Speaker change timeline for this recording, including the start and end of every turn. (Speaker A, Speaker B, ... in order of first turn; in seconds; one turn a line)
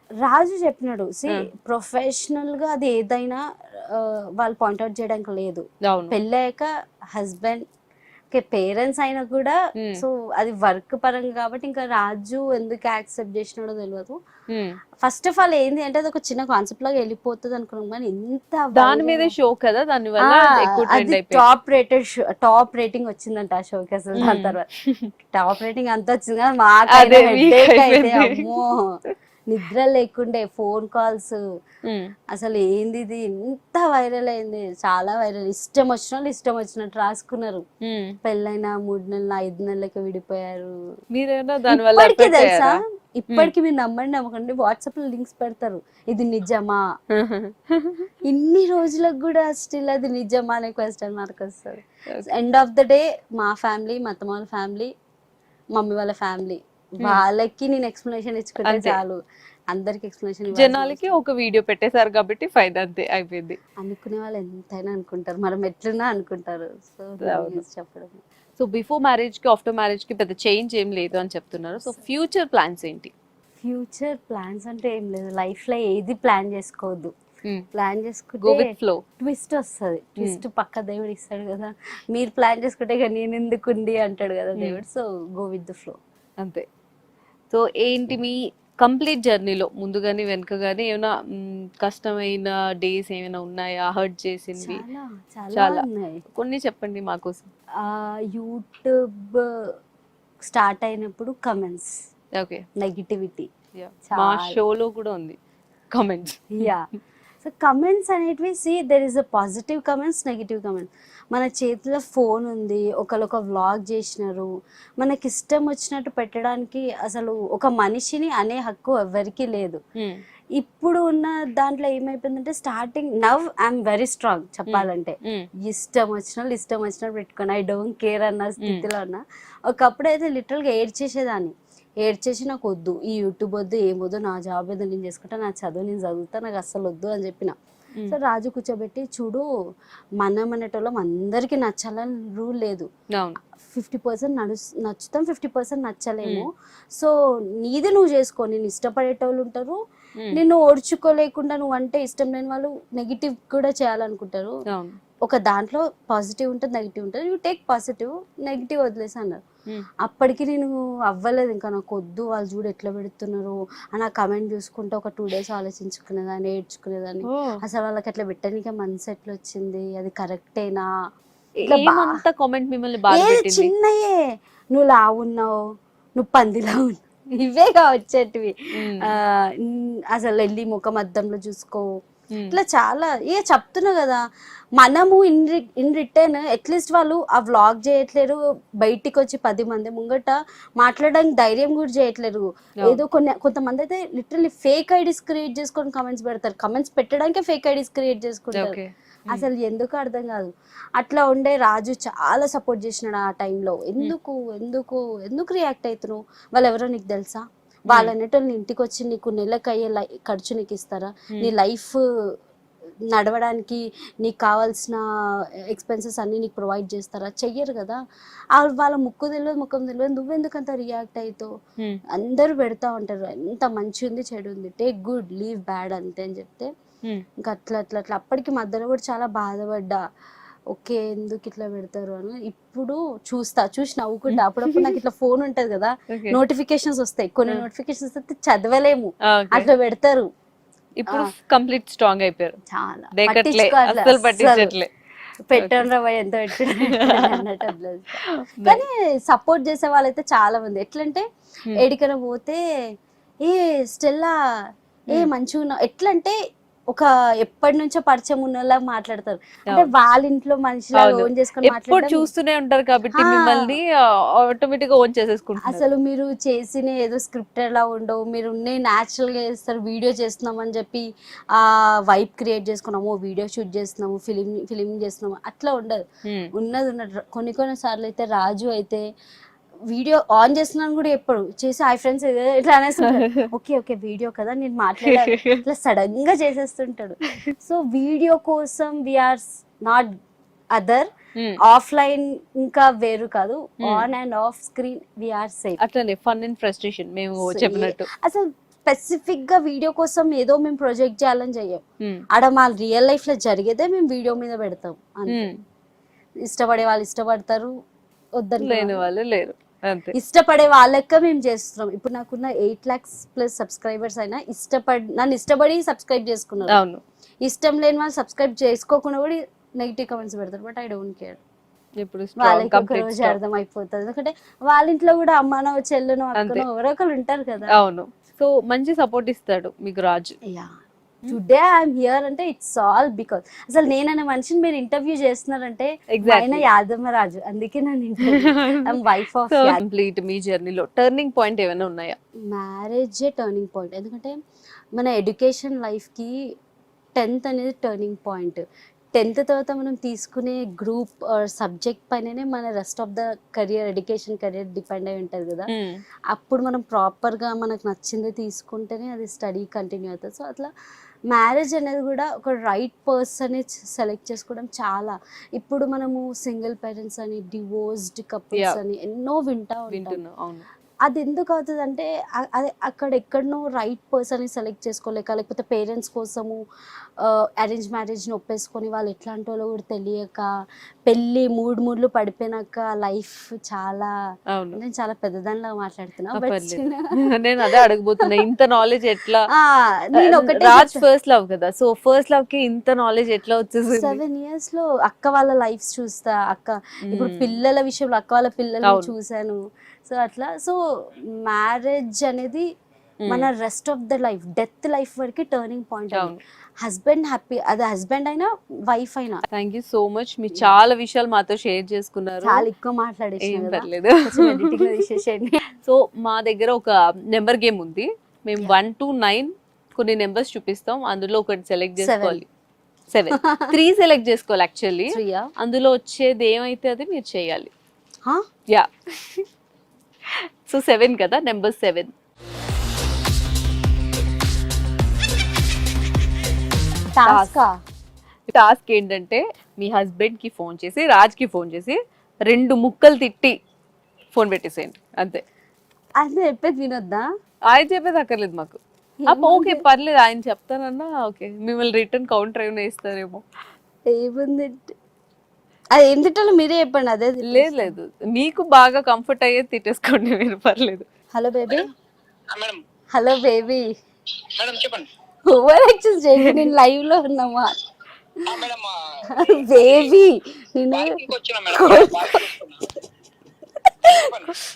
Speaker A: 0.2-7.6
Speaker B: 5.8-6.2
Speaker A: 8.3-14.2
Speaker B: 9.8-10.0
Speaker B: 14.5-14.8
Speaker A: 15.0-19.3
Speaker B: 18.7-21.4
Speaker A: 20.2-24.6
Speaker B: 24.1-25.1
Speaker A: 25.3-28.9
Speaker B: 26.9-28.5
Speaker A: 29.5-31.4
Speaker B: 31.8-32.1
Speaker A: 32.3-37.6
Speaker B: 37.8-38.2
Speaker A: 38.2-40.7
Speaker B: 41.1-42.8
Speaker A: 41.7-46.8
Speaker B: 47.1-48.1
Speaker A: 48.3-54.9
Speaker A: 55.7-61.2
Speaker B: 58.6-59.0
Speaker B: 60.5-63.6
Speaker A: 63.8-68.2
Speaker B: 67.2-67.6
Speaker B: 68.6-73.1
Speaker A: 73.6-77.1
Speaker A: 77.7-86.0
Speaker B: 78.4-79.0
Speaker B: 80.2-80.4
Speaker B: 86.4-86.7
Speaker B: 87.5-94.8
Speaker A: 94.6-96.2
Speaker B: 95.5-97.5
Speaker A: 97.8-99.7
Speaker A: 100.4-101.9
Speaker B: 102.3-102.6
Speaker A: 102.8-103.5
Speaker B: 103.7-105.4
Speaker A: 104.1-104.6
Speaker B: 105.9-106.7
Speaker A: 106.5-106.8
Speaker A: 107.4-114.5
Speaker A: 115.0-119.8
Speaker B: 120.0-120.2
Speaker A: 120.6-137.6
Speaker B: 124.7-125.5
Speaker B: 128.6-128.8
Speaker A: 138.1-139.4
Speaker A: 140.2-142.9
Speaker B: 143.1-143.4
Speaker A: 143.6-149.8
Speaker A: 150.3-154.5
Speaker B: 154.7-155.0
Speaker A: 155.3-159.4
Speaker A: 160.0-170.9
Speaker B: 167.2-167.6
Speaker B: 171.6-173.7
Speaker A: 171.6-172.2
Speaker A: 173.1-174.2
Speaker A: 174.7-175.6
Speaker A: 176.2-181.8
Speaker B: 178.8-179.1
Speaker B: 182.3-182.6
Speaker A: 182.5-184.2
Speaker A: 184.8-198.8
Speaker B: 198.5-199.5
Speaker A: 199.3-212.0
Speaker B: 207.9-208.1
Speaker A: 213.1-218.0
Speaker A: 218.6-221.5
Speaker A: 222.2-226.7
Speaker A: 227.4-230.0
Speaker A: 230.7-240.3
Speaker B: 234.3-235.0
Speaker B: 236.1-236.4
Speaker B: 239.2-239.7
Speaker B: 241.0-242.6
Speaker A: 242.7-244.7
Speaker B: 243.1-244.9
Speaker A: 245.5-252.6
Speaker B: 245.6-245.9
Speaker B: 246.5-247.7
Speaker B: 248.2-248.8
Speaker A: 253.4-254.3
Speaker A: 255.1-256.3
Speaker A: 256.9-262.3
Speaker B: 260.9-265.9
Speaker A: 263.1-263.7
Speaker A: 265.6-276.0
Speaker B: 276.2-276.5
Speaker A: 276.6-279.0
Speaker A: 279.9-290.1
Speaker B: 283.0-283.5
Speaker B: 285.1-285.6
Speaker A: 290.7-291.1
Speaker A: 291.6-295.8
Speaker B: 293.8-294.1
Speaker B: 295.8-298.1
Speaker A: 297.4-301.8
Speaker A: 302.3-305.5
Speaker B: 305.3-305.6
Speaker A: 306.4-307.7
Speaker A: 308.4-309.0
Speaker B: 308.6-310.1
Speaker A: 310.1-316.8
Speaker B: 316.7-317.0
Speaker A: 317.4-321.4
Speaker B: 322.0-323.4
Speaker A: 322.4-327.8
Speaker B: 326.3-326.7
Speaker B: 327.7-330.4
Speaker A: 331.3-339.8
Speaker B: 336.1-336.7
Speaker B: 338.2-338.9
Speaker B: 339.5-342.2
Speaker A: 342.5-344.3
Speaker A: 344.9-346.3
Speaker A: 347.2-348.6
Speaker A: 349.1-355.7
Speaker B: 355.7-356.0
Speaker A: 356.3-360.7
Speaker A: 361.3-370.2
Speaker B: 368.5-368.8
Speaker B: 369.9-370.6
Speaker A: 371.1-376.6
Speaker A: 377.2-380.5
Speaker A: 381.1-384.1
Speaker B: 384.5-384.8
Speaker A: 384.7-387.0
Speaker B: 386.3-389.5
Speaker A: 389.5-391.0
Speaker B: 390.1-394.2
Speaker A: 393.9-402.7
Speaker B: 397.0-397.5
Speaker B: 398.8-399.1
Speaker B: 403.2-403.5
Speaker A: 403.3-409.4
Speaker B: 406.1-406.4
Speaker B: 409.5-412.7
Speaker A: 412.4-415.6
Speaker B: 413.4-414.9
Speaker B: 415.8-422.4
Speaker A: 422.0-422.4
Speaker B: 423.1-427.7
Speaker A: 423.3-423.7
Speaker A: 425.1-425.5
Speaker B: 428.7-429.5
Speaker B: 430.2-432.1
Speaker A: 437.1-437.7
Speaker B: 437.2-437.5
Speaker B: 438.5-443.6
Speaker B: 444.3-445.4
Speaker A: 446.2-447.2
Speaker B: 447.7-453.4
Speaker A: 449.2-449.8
Speaker A: 454.1-454.9
Speaker A: 455.9-457.9
Speaker B: 457.4-461.1
Speaker A: 461.3-461.9
Speaker C: 462.5-462.8
Speaker A: 463.1-463.8
Speaker C: 464.5-465.1
Speaker A: 465.5-467.7
Speaker B: 466.4-466.7
Speaker C: 468.5-468.9
Speaker A: 469.3-471.2
Speaker C: 469.5-470.1
Speaker C: 470.9-472.8
Speaker A: 471.7-472.6
Speaker A: 474.0-474.3
Speaker C: 474.1-474.5